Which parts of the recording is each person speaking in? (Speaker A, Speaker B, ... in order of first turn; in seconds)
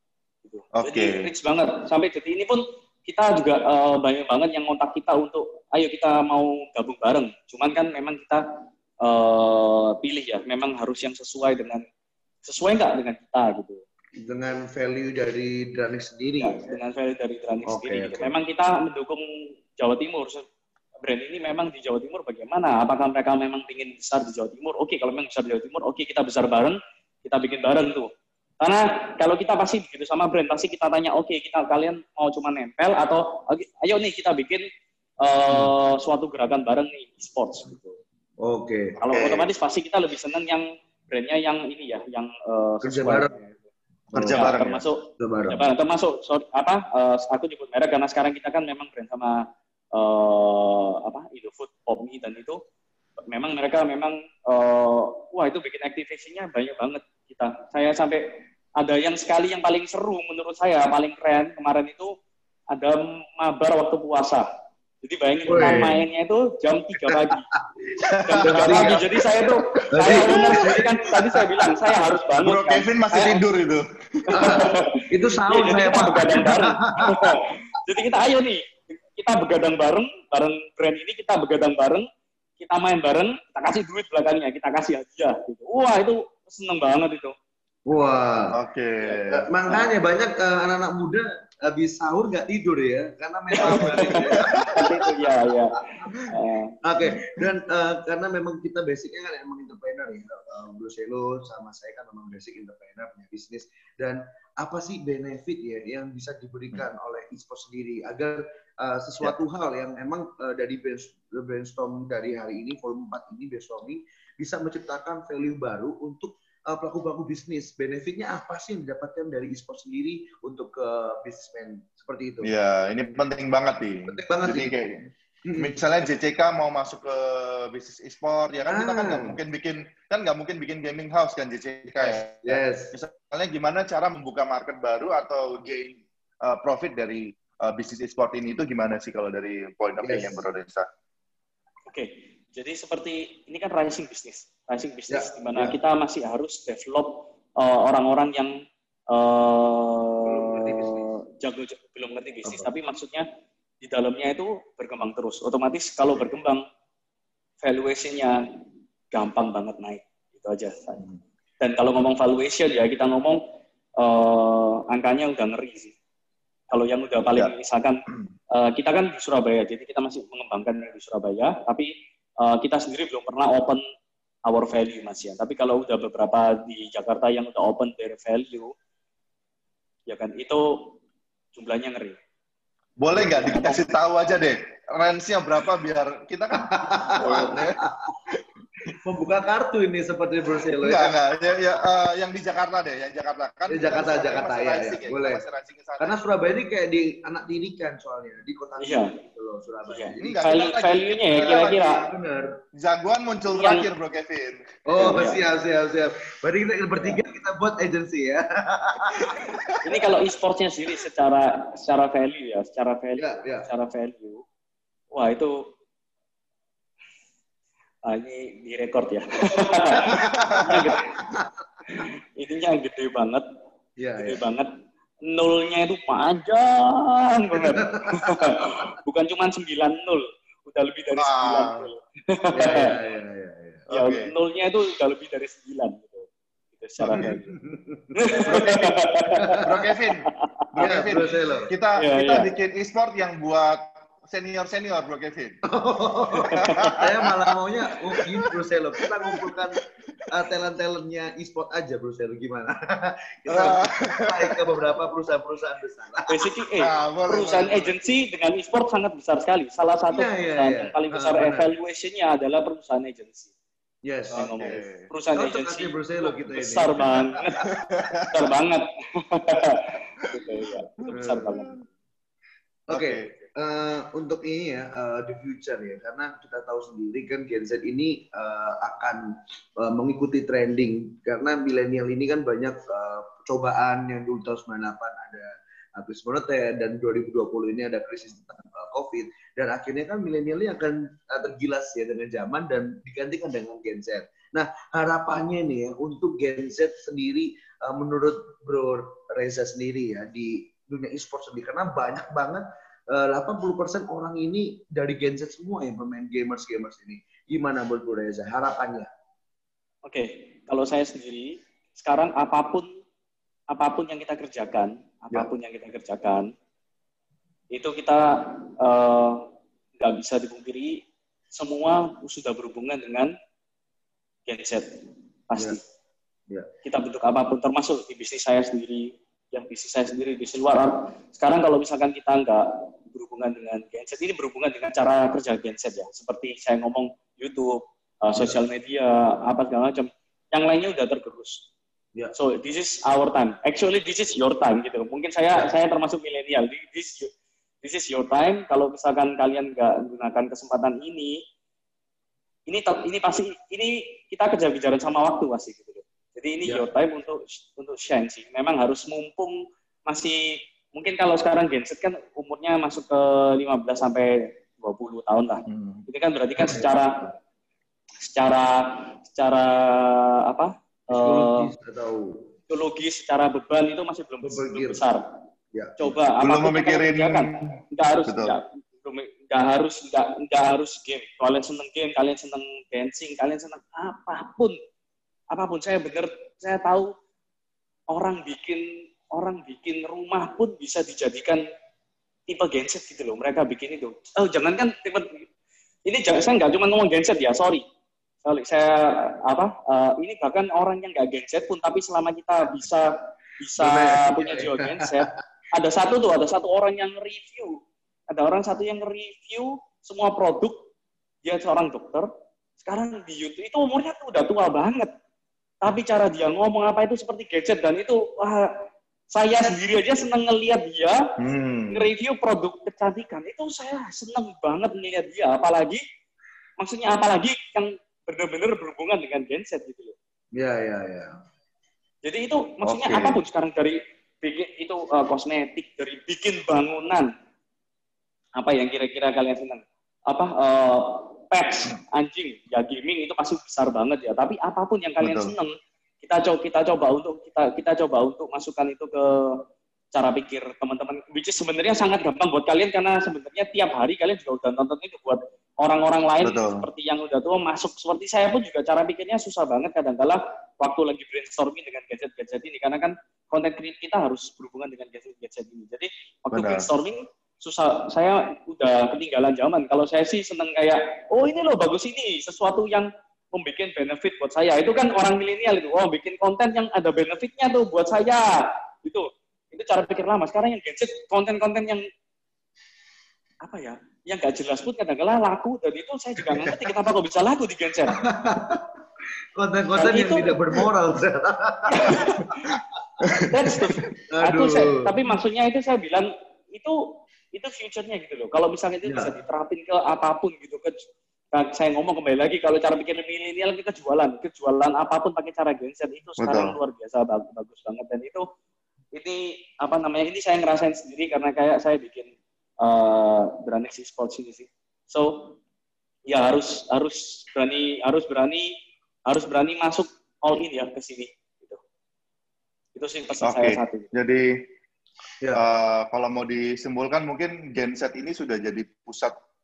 Speaker A: 0.4-8.4, 9.0-11.8, 12.4-13.8, 16.4-19.2, 19.8-20.4, 21.0-34.7, 35.2-38.0, 39.0-43.3, 44.3-52.6, 53.3-62.1, 62.7-64.5, 65.0-67.5, 68.2-73.4, 74.3-82.1, 82.6-87.3, 93.6-96.8, 141.9-148.5, 149.1-153.2, 153.8-156.6, 157.6-158.4, 159.1-161.1, 161.6-163.4, 164.0-165.9, 166.7-168.0, 168.5-173.8, 174.4-178.7, 180.1-181.0, 181.5-182.2, 183.1-183.9, 187.2-187.5, 198.8-199.1, 199.9-202.0, 203.5-203.9, 205.0-205.4, 209.8-214.4, 215.1-215.6, 218.1-221.2, 221.9-223.4, 224.2-224.7, 225.2-232.9, 233.9-237.4, 238.1-239.6, 242.0-242.5, 246.5-247.0, 256.3-263.5, 264.3-267.7, 268.3-271.7, 310.1-312.9, 313.7-316.5, 317.7-319.4, 320.0-323.3, 324.5-325.8, 326.8-341.6, 342.3-347.3, 347.8-351.4, 352.7-367.3, 368.2-371.7, 372.7-375.2, 376.0-384.8, 385.5-387.1, 388.1-391.6, 392.5-395.5, 396.1-397.8, 398.4-410.9, 411.4-412.3, 412.8-415.1, 415.8-418.8, 419.3-421.2, 421.9-426.0, 426.8-430.1, 432.2-437.3, 438.6-449.6, 450.1-482.0, 483.6-488.2, 489.9-490.6, 491.9-492.7, 493.4-508.4, 509.1-515.5, 516.3-518.7, 519.3-521.8, 523.0-524.1
Speaker B: 0.7-1.2, 39.1-39.5, 44.1-44.8, 68.0-69.2, 70.1-70.8, 72.4-74.7, 88.5-89.5, 93.8-94.7, 122.4-140.8, 183.0-187.8, 188.3-188.9, 190.8-196.2, 200.1-202.0, 202.8-204.8, 220.2-220.7, 231.2-231.9, 233.9-234.3, 238.3-245.6, 246.4-247.3, 248.1-250.2, 253.5-254.6, 256.8-258.0, 264.3-265.1, 267.6-268.3, 271.0-271.8, 272.9-273.3, 365.7-366.0, 376.4-378.6, 421.4-422.1, 432.9-433.4, 445.2-445.5, 456.4-456.8, 466.5-466.9, 506.4-506.7, 523.4-524.6, 525.5-529.3
Speaker C: 14.2-16.8, 17.7-18.3, 38.4-39.0, 42.8-43.5, 44.1-44.6, 45.2-45.7, 65.5-66.0, 67.1-67.9, 68.4-69.0, 69.9-71.6, 74.3-77.3, 87.8-88.5, 89.3-96.3, 96.8-122.5, 124.1-124.8, 125.4-125.8, 128.7-129.4, 132.0-132.9, 140.0-140.4, 145.1-145.8, 150.2-151.1, 152.4-152.7, 186.6-188.1, 189.0-191.2, 193.7-195.4, 196.0-200.4, 201.3-202.5, 204.8-209.6, 213.2-213.7, 220.0-221.5, 224.0-224.4, 227.6-228.8, 232.5-233.9, 237.0-238.6, 239.3-239.9, 240.8-241.7, 245.7-256.5, 260.1-261.7, 264.0-267.4, 271.1-271.8, 272.9-309.1, 371.1-372.5, 374.4-375.0, 375.7-376.1, 403.8-405.4, 430.6-431.3, 486.5-486.9, 488.2-488.9, 489.6-493.5, 494.3-495.1, 499.0-499.3